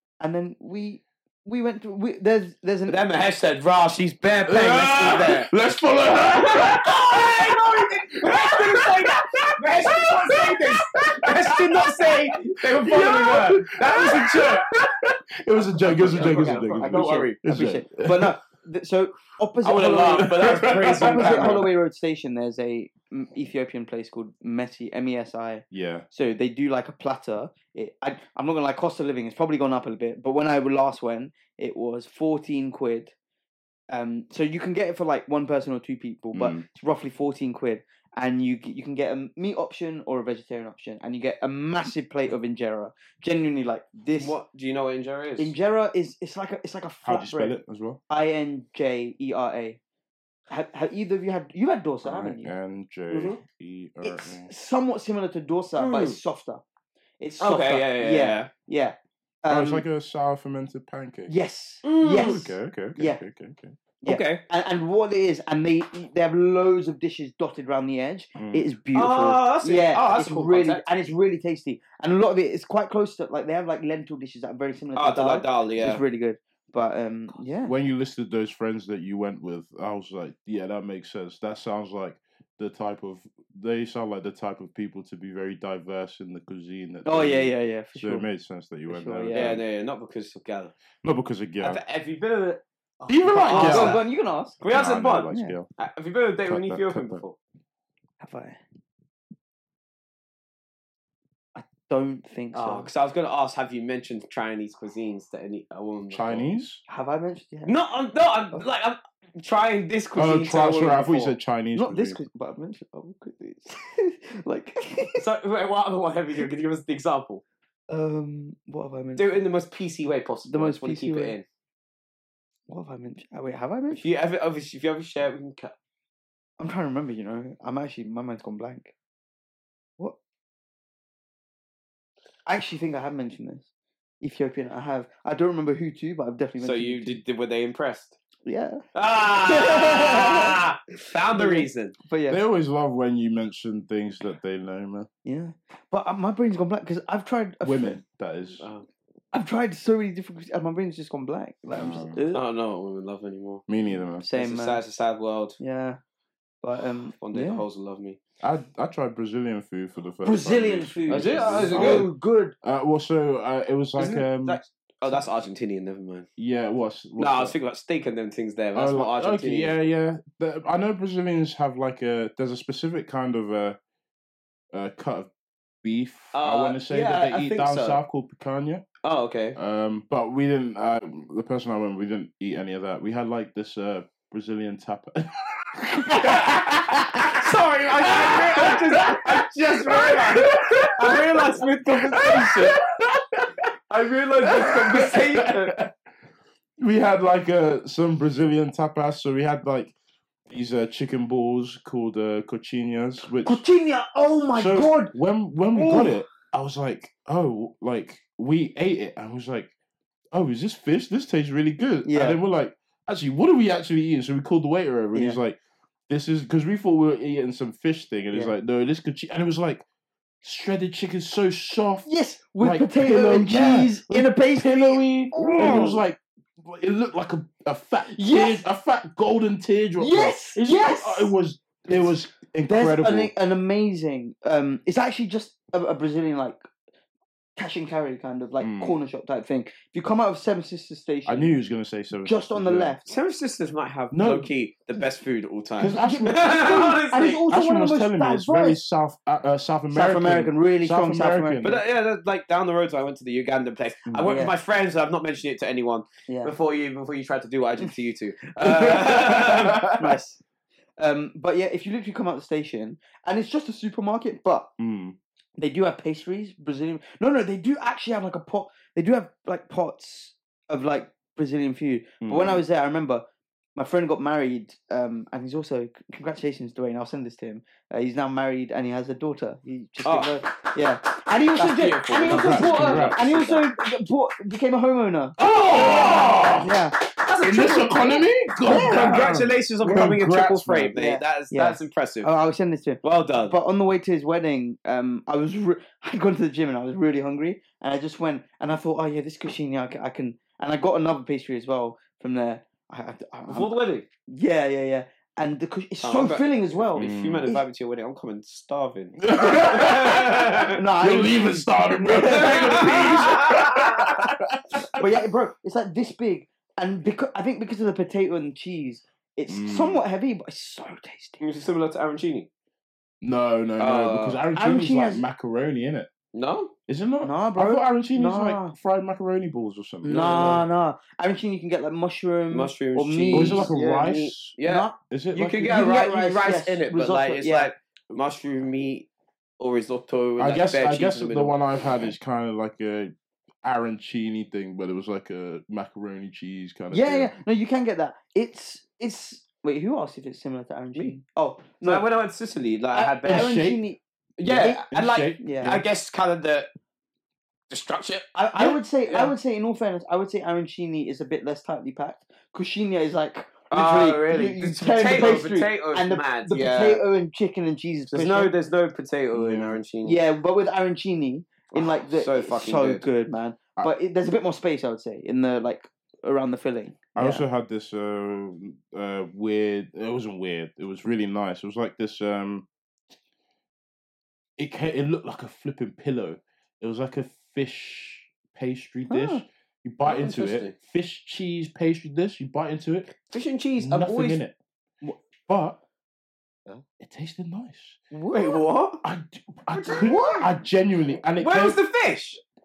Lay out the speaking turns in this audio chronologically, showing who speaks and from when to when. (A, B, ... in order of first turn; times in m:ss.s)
0:00.2-0:03.0 A
0:02.9-0:05.5 B
0:04.5-0:18.4 C
0:06.3-0:14.6 B
0:15.8-0:17.4 B
0:15.8-0:33.1 A
0:19.6-0:21.7 B
0:20.0-0:21.6 C
0:25.7-0:26.0 C
0:33.9-0:44.4 A
0:36.3-0:36.6 C
0:44.1-0:45.5 B
0:45.4-0:47.6 A
0:47.0-0:48.0 C
0:48.1-0:49.8 A
0:50.5-0:52.5 A
0:52.0-0:54.5 C
0:53.1-0:53.4 B
0:54.0-0:56.6 A
0:55.8-0:56.2 B
0:57.2-0:59.8 A
0:57.4-0:58.5 B
0:59.5-1:01.3 C
1:01.3-1:03.2 A
1:01.8-1:02.5 B
1:02.2-1:03.8 C
1:04.0-1:17.7 A
1:04.0-1:04.4 B
1:08.4-1:08.6 C
1:08.9-1:10.8 B
1:14.9-1:16.0 B
1:17.6-1:29.6 C
1:27.0-1:28.3 A
1:28.9-1:29.6 A
1:29.3-1:30.7 B
1:31.0-1:31.8 C
1:31.6-1:34.0 B
1:33.1-1:34.0 C
1:33.3-1:34.6 A
1:34.6-1:37.4 B
1:34.7-1:35.7 C
1:35.3-1:35.6 A
1:36.4-1:37.2 C
1:38.2-1:38.6 A
1:41.5-1:42.9 A
1:42.5-1:46.5 B
1:46.1-1:46.8 C
1:46.9-1:47.7 A
1:47.6-1:51.3 B
1:50.2-1:52.2 C
1:51.7-1:55.2 A
1:55.2-1:57.4 B
1:57.9-1:59.4 A
1:59.2-2:01.4 B
2:00.5-2:01.4 A
2:02.7-2:04.1 A
2:03.9-2:05.7 B
2:06.6-2:08.9 A
2:12.4-2:13.7 A
2:14.2-2:17.2 A
2:16.6-2:18.2 B
2:18.4-2:18.8 A
2:18.9-2:21.9 B
2:19.4-2:20.6 A
2:21.3-2:22.4 A
2:22.3-2:25.1 C
2:25.2-2:28.0 A
2:27.6-2:28.6 C
2:28.6-2:28.9 B
2:29.3-2:32.4 A
2:31.7-2:32.2 C
2:32.3-2:33.6 B
2:33.7-2:34.2 C
2:34.2-2:34.8 A
2:34.3-2:35.6 B
2:35.6-2:36.0 A
2:36.6-2:37.6 A
2:37.2-2:38.2 B
2:38.4-2:42.1 C
2:40.2-2:42.5 A
2:41.1-2:42.1 B
2:42.6-2:44.6 C
2:44.0-2:46.3 B
2:46.4-2:47.5 C
2:47.2-2:49.7 B
2:48.7-2:53.8 C
2:54.7-2:55.3 C
2:55.8-2:58.8 C
2:56.3-2:58.0 B
2:59.0-2:59.6 B
2:59.6-3:13.7 C
3:07.2-3:12.8 B
3:13.9-3:15.7 B
3:14.5-3:15.9 C
3:16.8-3:20.0 C
3:20.5-3:23.6 C
3:23.4-3:25.1 A
3:24.5-3:29.7 C
3:25.7-3:26.2 A
3:30.3-3:39.8 C
3:32.0-3:32.4 A
3:35.1-3:35.4 A
3:40.4-3:53.3 C
3:42.0-3:46.0 A
3:45.5-3:45.9 B
3:48.0-3:48.6 A
3:50.0-3:51.3 A
3:52.7-3:56.6 A
3:57.6-4:01.5 A
3:58.6-3:59.0 C
4:01.2-4:02.9 C
4:02.2-4:03.1 A
4:03.0-4:07.4 B
4:04.1-4:04.5 C
4:05.8-4:06.4 C
4:05.9-4:08.8 A
4:07.5-4:11.8 C
4:09.9-4:11.7 A
4:11.6-4:19.9 B
4:14.0-4:14.4 C
4:14.2-4:14.6 A
4:16.3-4:16.5 A
4:18.6-4:20.4 A
4:19.5-4:20.2 C
4:21.0-4:24.7 A
4:24.8-4:25.2 C
4:25.6-4:45.4 A
4:32.2-4:32.6 C
4:40.0-4:40.4 B
4:41.6-4:43.6 B
4:42.2-4:43.2 C
4:45.4-4:46.7 C
4:45.4-4:46.6 B
4:46.6-4:47.0 A
4:47.1-4:52.3 B
4:47.4-4:50.9 C
4:48.7-4:49.2 A
4:51.0-5:03.7 A
4:53.0-4:53.5 B
5:03.5-5:04.0 B
5:04.3-5:07.6 A
5:06.0-5:10.8 B
5:07.0-5:07.5 C
5:09.2-5:15.2 C
5:10.7-5:13.6 A
5:12.2-5:14.3 B
5:14.9-5:21.4 A
5:19.5-5:20.0 C
5:21.4-5:22.5 B
5:23.2-5:26.1 C
5:23.8-5:24.4 B
5:24.5-5:25.2 A
5:26.3-5:26.7 B
5:26.9-5:30.6 C
5:27.2-5:28.7 A
5:30.0-5:30.6 B
5:30.0-5:33.7 A
5:32.5-5:41.6 B
5:33.3-5:34.6 C
5:34.6-5:35.0 A
5:35.1-5:35.7 C
5:35.6-5:37.7 A
5:40.4-5:47.3 C
5:46.9-5:52.0 A
5:51.8-5:53.6 B
5:52.9-5:55.8 A
5:53.2-5:53.8 C
5:54.4-5:56.7 B
5:54.5-5:55.8 C
5:57.7-5:59.3 B
5:58.3-6:08.5 A
6:03.7-6:07.0 B
6:08.1-6:10.2 B
6:09.3-6:09.8 C
6:10.0-6:17.4 A
6:11.7-6:13.0 B
6:17.2-6:22.6 C
6:24.6-6:33.1 C
6:29.1-6:29.4 A
6:30.0-6:30.7 B
6:33.3-6:34.4 B
6:33.8-6:34.5 C
6:35.5-6:35.8 C
6:37.0-6:38.0 C
6:38.1-6:38.6 A
6:38.3-6:39.0 B
6:39.0-6:41.8 C
6:39.7-6:40.1 B
6:39.8-6:40.5 A
6:41.4-6:42.4 B